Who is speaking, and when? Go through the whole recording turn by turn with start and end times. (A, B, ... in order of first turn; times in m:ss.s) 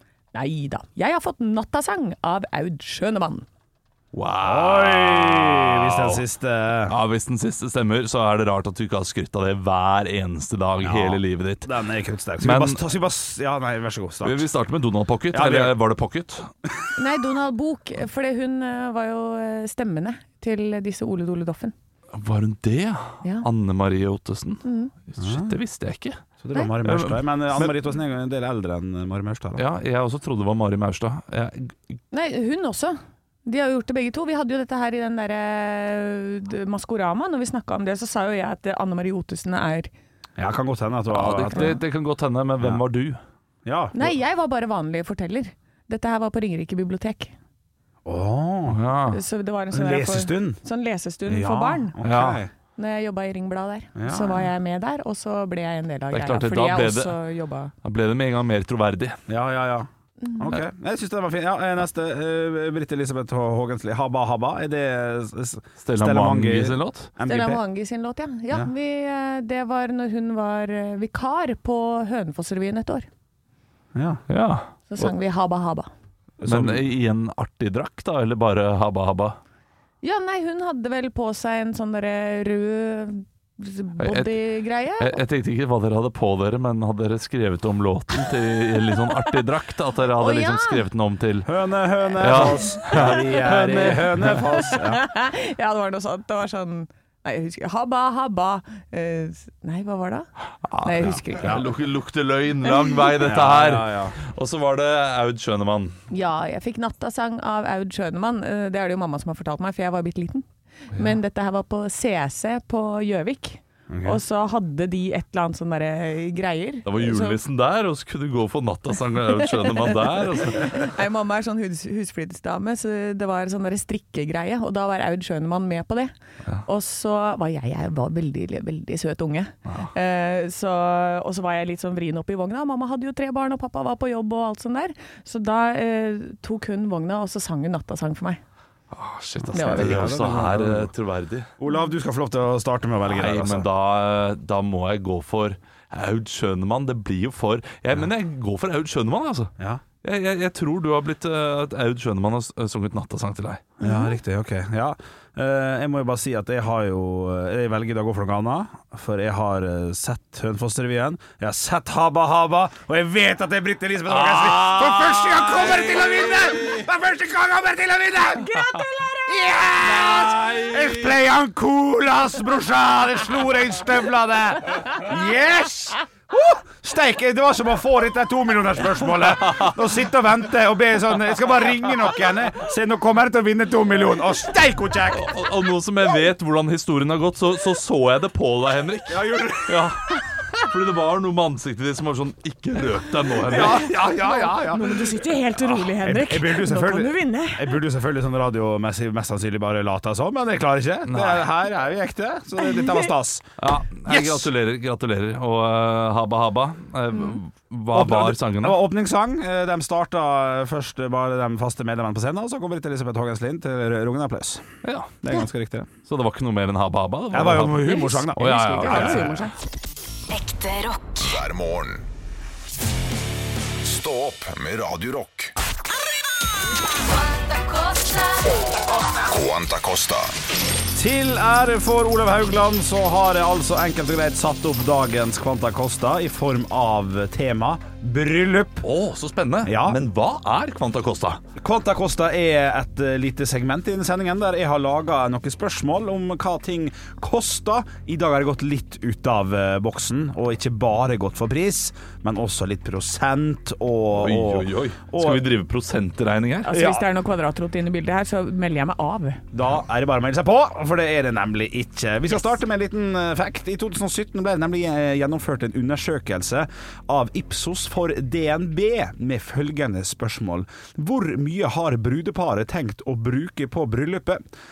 0:00.3-0:03.5 A
0:04.1-0:06.2 B
0:04.4-0:07.0 C
0:06.9-0:11.7 B
0:10.8-0:14.4 C
0:12.4-0:12.8 B
0:14.2-0:16.5 B
0:15.3-0:15.8 C
0:17.0-0:21.7 A
0:22.1-0:26.2 B
0:24.6-0:24.9 A
0:25.2-0:25.6 C
0:26.4-0:29.6 C
0:26.8-0:27.7 B
0:29.6-0:31.8 B
0:32.1-0:39.9 A
0:40.4-0:41.8 C
0:41.1-0:43.2 B
0:43.6-0:44.2 C
0:43.9-0:47.3 A
0:48.0-0:48.8 C
0:48.7-0:49.2 B
0:49.1-0:52.0 A
0:49.7-0:50.6 C
0:51.3-0:52.5 C
0:52.0-0:52.4 B
0:52.8-0:57.7 A
0:54.0-0:54.5 C
0:56.1-0:57.2 B
0:57.8-0:59.2 B
0:59.3-1:07.6 C
1:00.2-1:00.5 A
1:05.8-1:07.1 B
1:07.2-1:13.1 A
1:13.9-1:14.2 C
1:14.3-1:15.1 B
1:14.9-1:15.9 A
1:16.4-1:16.8 C
1:16.4-1:19.4 B
1:20.0-1:25.2 A
1:24.0-1:24.3 B
1:25.0-1:31.5 B
1:30.1-1:30.8 A
1:31.4-1:35.0 C
1:32.2-1:34.4 B
1:32.8-1:33.1 A
1:34.6-1:40.3 A
1:40.7-1:46.0 B
1:40.8-1:41.6 A
1:41.1-1:41.6 C
1:43.2-1:44.2 C
1:46.1-1:57.4 A
1:53.9-1:54.2 C
1:56.9-2:00.9 B
1:59.4-2:06.1 A
2:06.7-2:18.4 A
2:18.9-2:21.5 B
2:19.4-2:20.9 C
2:19.5-2:20.2 A
2:21.6-2:23.7 C
2:23.1-2:29.5 B
2:29.6-2:29.8 C
2:30.0-2:33.8 B
2:33.8-2:48.5 C
2:33.8-2:34.1 A
2:44.1-2:46.8 B
2:48.5-2:49.3 A
2:49.2-3:05.3 C
2:49.8-2:51.1 B
3:05.1-3:13.9 B
3:09.1-3:10.6 C
3:13.4-3:24.5 C
3:13.5-3:17.8 A
3:21.1-3:21.4 B
3:22.6-3:23.0 A
3:23.6-3:28.8 B
3:27.9-3:34.7 C
3:34.8-3:35.3 B
3:35.2-3:35.9 C
3:36.1-3:39.5 B
3:37.3-3:39.4 C
3:37.8-3:39.5 A
3:40.3-3:41.2 D
3:41.2-3:42.1 E
3:43.8-3:45.5 E
3:47.3-3:48.4 D
3:49.2-3:50.4 E
3:51.0-3:58.9 C
3:58.8-4:01.4 B
3:59.6-4:00.0 C
4:01.6-4:15.5 C
4:14.2-4:16.7 B
4:16.6-4:19.4 A
4:16.7-4:17.1 C
4:19.5-4:34.4 C